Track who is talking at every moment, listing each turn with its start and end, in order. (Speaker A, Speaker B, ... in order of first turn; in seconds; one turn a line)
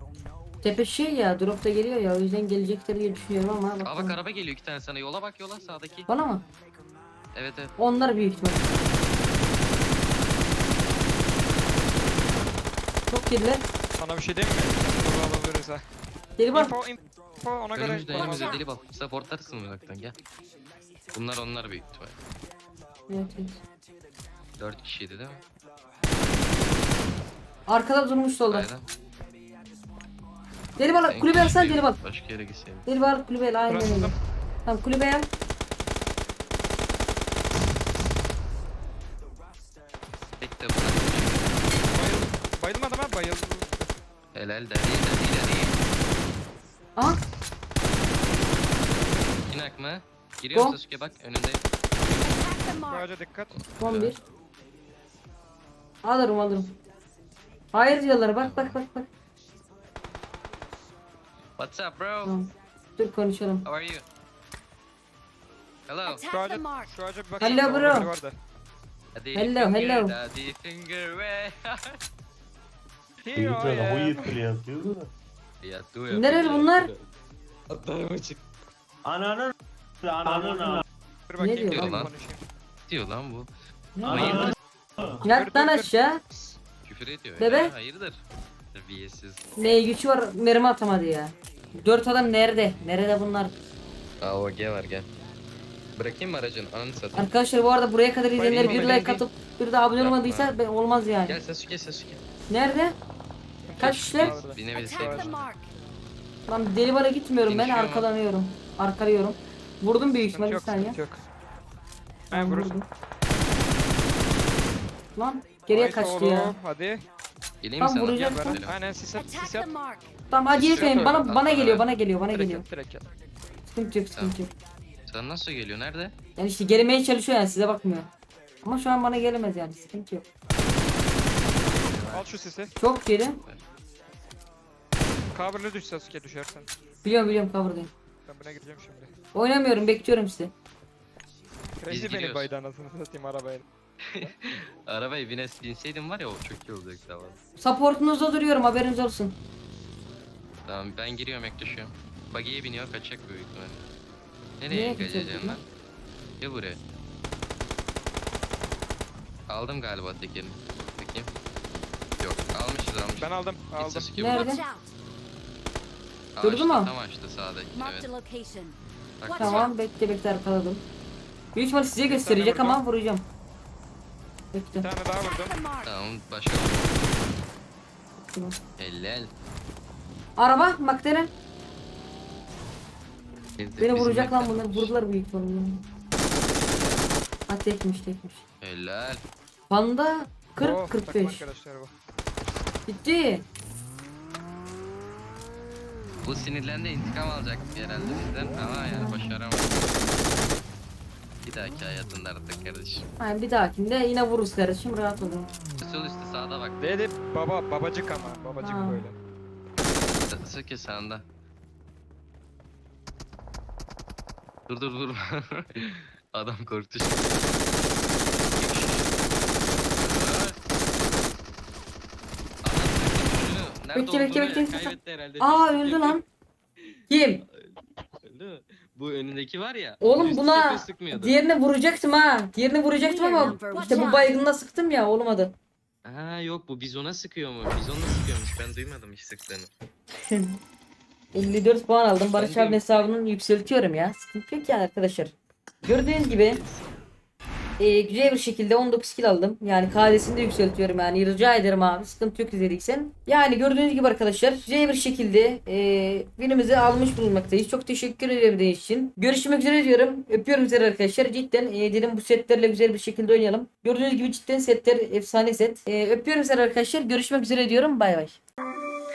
Speaker A: 0.6-4.2
Speaker B: 3.9-6.1
Speaker A: 6.1-6.4
Speaker B: 7.3-7.7
Speaker A: 7.8-8.7
Speaker A: 13.1-13.6
Speaker C: 14.0-15.8
Speaker A: 16.4-16.7
Speaker C: 16.5-18.6
Speaker B: 17.7-20.2
Speaker D: 18.2-18.6
Speaker B: 21.1-22.2
Speaker A: 23.1-23.6
Speaker B: 24.6-25.4
Speaker A: 27.7-28.7
Speaker B: 28.5-28.9
Speaker A: 30.8-32.0
Speaker B: 31.1-33.0
Speaker A: 32.9-35.3
Speaker C: 33.7-34.2
Speaker B: 40.4-41.6
Speaker C: 41.9-43.9
Speaker B: 44.3-45.8
Speaker B: 49.3-51.6
Speaker D: 52.2-53.1
Speaker C: 52.9-53.6
Speaker B: 53.6-54.2
Speaker A: 53.8-54.2
Speaker A: 56.0-56.8
Speaker A: 57.7-59.1
Speaker B: 58.4-58.8
Speaker B: 61.6-62.4
Speaker A: 62.2-63.7
Speaker B: 63.6-64.1
Speaker B: 65.9-66.2
Speaker D: 66.1-66.9
Speaker C: 66.3-68.4
Speaker A: 67.4-68.1
Speaker D: 67.4-67.9
Speaker B: 69.2-72.0
Speaker A: 69.3-70.2
Speaker C: 73.2-74.4
Speaker E: 73.3-75.1
Speaker B: 75.6-77.1
Speaker A: 76.1-76.9
Speaker B: 77.7-78.4
Speaker E: 79.1-79.5
Speaker E: 80.0-80.8
Speaker C: 81.3-82.5
Speaker A: 81.4-82.0
Speaker B: 81.7-82.1
Speaker B: 82.9-83.5
Speaker A: 84.0-84.5
Speaker B: 84.1-84.5
Speaker E: 84.1-84.5
Speaker A: 85.2-86.2
Speaker C: 85.3-86.5
Speaker B: 86.8-88.2
Speaker A: 87.4-87.7
Speaker B: 88.7-89.8
Speaker A: 89.6-93.5
Speaker B: 94.2-95.1
Speaker B: 96.0-97.3
Speaker A: 97.2-101.4
Speaker C: 98.3-99.2
Speaker B: 98.5-99.0
Speaker B: 99.9-100.6
Speaker B: 101.3-102.2
Speaker A: 102.5-103.0
Speaker C: 103.7-105.3
Speaker A: 103.8-104.4
Speaker B: 103.8-105.5
Speaker D: 104.7-105.7
Speaker A: 106.5-111.0
Speaker B: 107.5-108.1
Speaker C: 110.3-111.2
Speaker C: 112.3-112.8
Speaker A: 112.3-112.9
Speaker A: 115.2-116.6
Speaker C: 115.7-117.0
Speaker B: 117.6-118.8
Speaker A: 117.8-118.6
Speaker C: 118.1-119.7
Speaker D: 119.2-120.1
Speaker A: 120.3-122.7
Speaker B: 120.5-122.0
Speaker C: 120.8-121.1
Speaker C: 122.3-123.1
Speaker A: 123.7-124.5
Speaker B: 125.1-126.1
Speaker A: 126.4-128.1
Speaker A: 128.6-130.3
Speaker B: 131.6-132.5
Speaker C: 132.1-132.8
Speaker A: 132.8-133.4
Speaker C: 135.3-136.7
Speaker A: 137.0-137.9
Speaker C: 138.3-139.1
Speaker A: 139.3-140.5
Speaker C: 141.8-143.7
Speaker B: 141.9-142.5
Speaker B: 144.0-147.4
Speaker A: 147.6-149.4
Speaker B: 150.7-153.8
Speaker B: 154.6-155.7
Speaker A: 154.7-155.6
Speaker B: 156.4-156.8
Speaker B: 159.5-161.3
Speaker B: 162.2-164.6
Speaker C: 163.2-164.1
Speaker A: 164.2-164.6
Speaker D: 164.2-164.9
Speaker B: 166.4-168.1
Speaker A: 166.4-166.9
Speaker D: 167.8-169.8
Speaker B: 169.2-169.7
Speaker A: 169.3-170.8
Speaker A: 171.5-173.3
Speaker C: 172.1-172.8
Speaker A: 174.5-174.9
Speaker C: 174.8-175.6
Speaker D: 175.2-175.9
Speaker B: 175.8-177.1
Speaker A: 178.2-178.6
Speaker B: 178.8-179.3
Speaker A: 180.4-181.3
Speaker B: 183.6-184.9
Speaker A: 183.8-185.8
Speaker A: 187.5-188.4
Speaker B: 188.6-189.2
Speaker A: 189.7-191.4
Speaker C: 190.6-191.9
Speaker A: 192.9-193.4
Speaker B: 196.2-199.7
Speaker B: 201.4-203.1
Speaker A: 203.2-205.5
Speaker B: 205.8-206.8
Speaker C: 206.8-209.2
Speaker A: 208.6-209.1
Speaker B: 210.3-211.2
Speaker B: 214.7-217.3
Speaker B: 218.6-219.1
Speaker B: 220.0-220.6
Speaker B: 222.6-226.2
Speaker A: 223.9-226.2
Speaker B: 226.8-231.4
Speaker A: 227.1-227.4
Speaker A: 230.0-235.5
Speaker D: 233.0-234.3
Speaker B: 236.1-239.7
Speaker A: 240.3-240.6
Speaker A: 241.3-246.6
Speaker B: 242.3-242.8
Speaker B: 246.2-246.9
Speaker A: 247.8-268.4